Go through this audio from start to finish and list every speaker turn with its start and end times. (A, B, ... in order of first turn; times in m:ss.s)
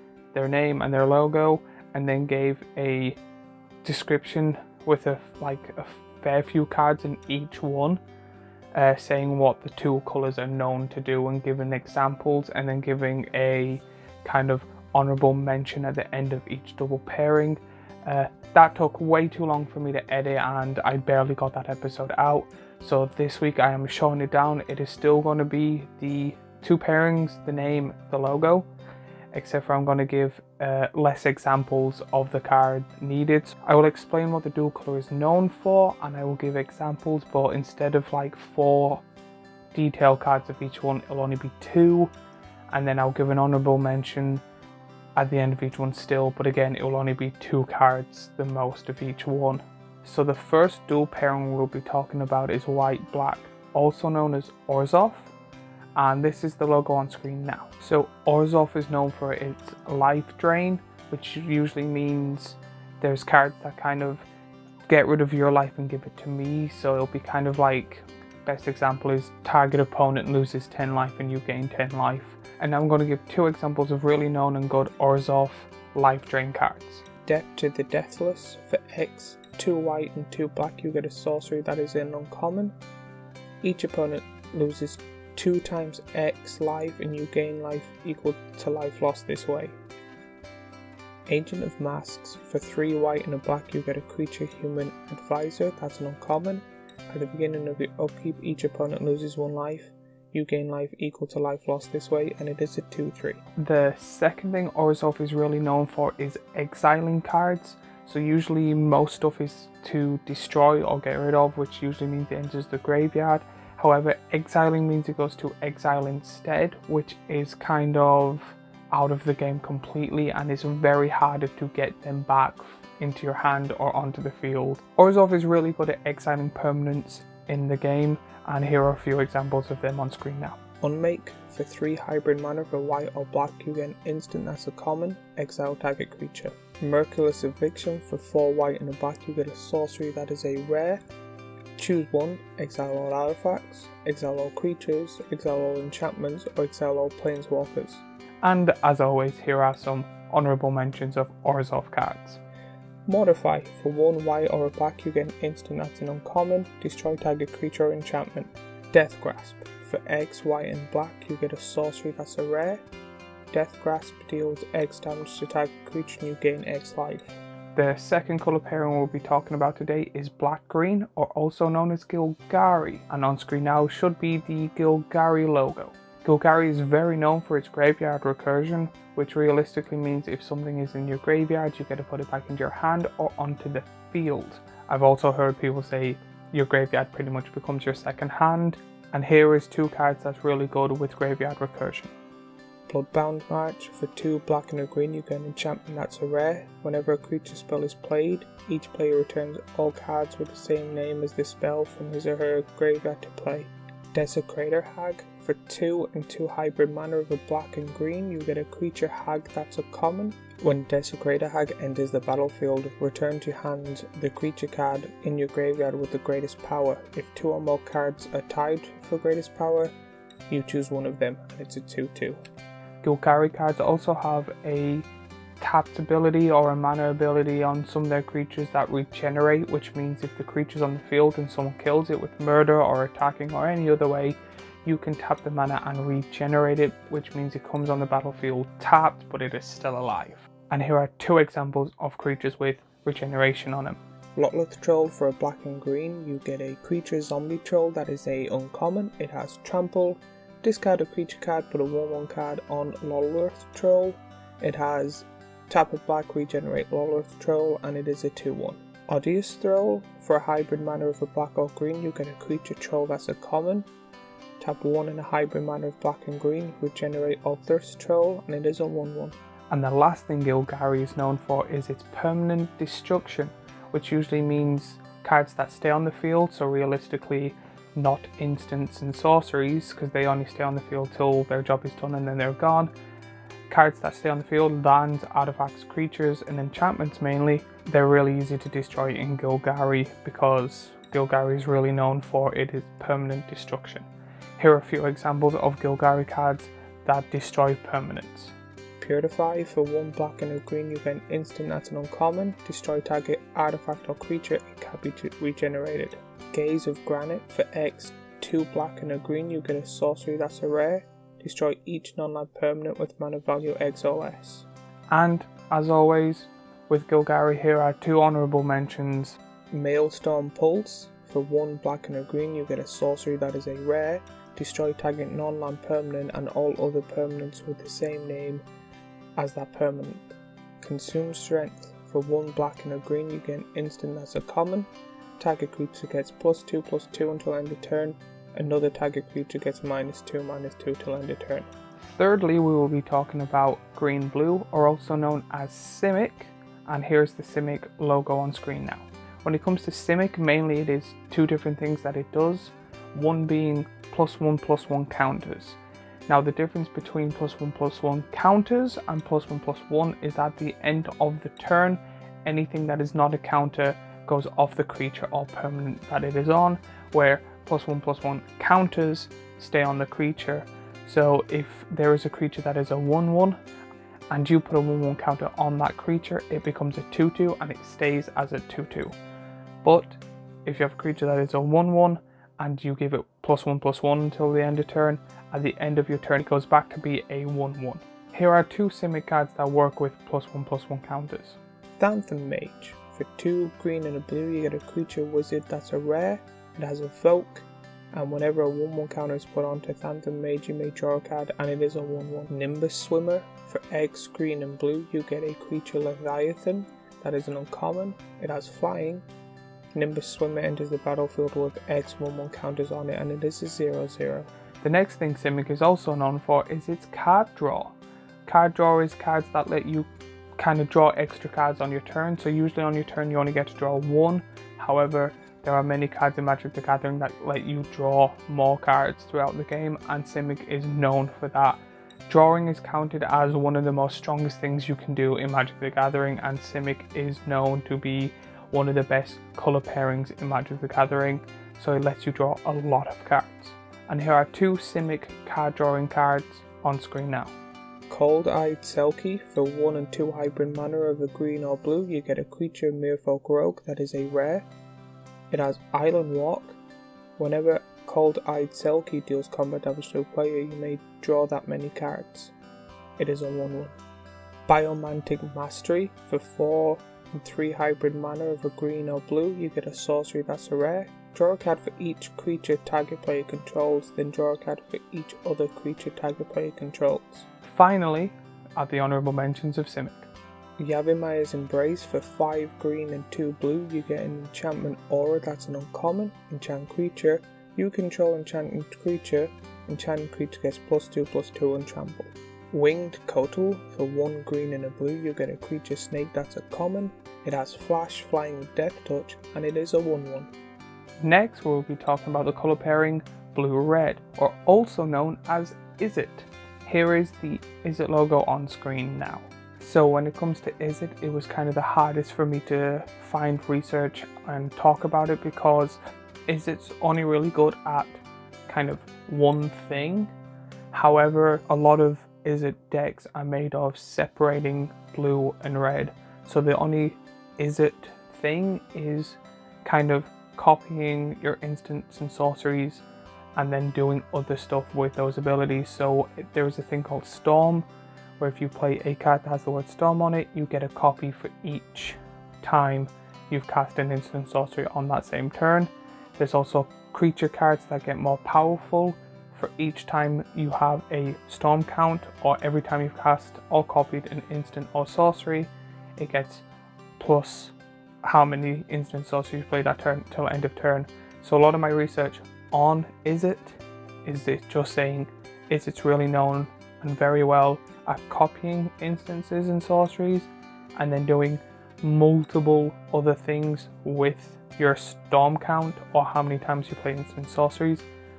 0:00.3-0:03.2 A
0:03.8-0:08.0 A
0:08.7-0:28.7 A
0:29.3-0:39.0 A
0:39.7-0:42.1 A
0:42.7-0:44.4 A
0:45.2-0:55.3 A
0:56.0-1:04.3 A
1:04.9-1:17.1 A
1:17.2-1:22.8 B
1:23.6-1:29.8 B
1:31.3-1:43.4 B
1:43.6-2:10.6 A
2:10.8-2:21.0 B
2:21.8-2:28.0 B
2:28.4-2:32.4 A
2:33.1-2:42.8 B
2:43.5-2:47.4 B
2:47.8-3:12.1 A
3:12.9-3:40.0 B
3:40.5-3:42.4 B
3:43.0-3:45.1 A
3:45.6-4:04.0 A
4:04.4-4:23.9 B
4:24.6-4:29.4 B
4:29.7-4:42.9 A
4:43.7-4:58.5 A
4:59.0-5:14.7 B
5:15.1-5:19.4 A
5:19.7-5:28.6 B
5:29.4-5:30.2 B
5:30.8-5:41.7 B
5:42.0-6:13.6 A
6:14.3-6:19.2 A
6:19.8-6:31.6 A
6:32.0-6:49.2 B
6:50.0-6:54.5 B
6:54.8-7:27.6 A
7:28.1-7:34.7 B
7:35.5-7:36.8 B
7:37.4-7:42.5 B
7:43.2-7:44.0 B
7:44.7-7:57.5 B
7:57.6-8:00.3 A
8:00.8-8:20.5 B
8:21.2-8:40.3 A
8:40.9-8:53.0 A
8:53.6-8:57.9 A
8:58.4-9:16.6 A
9:17.2-9:38.1 A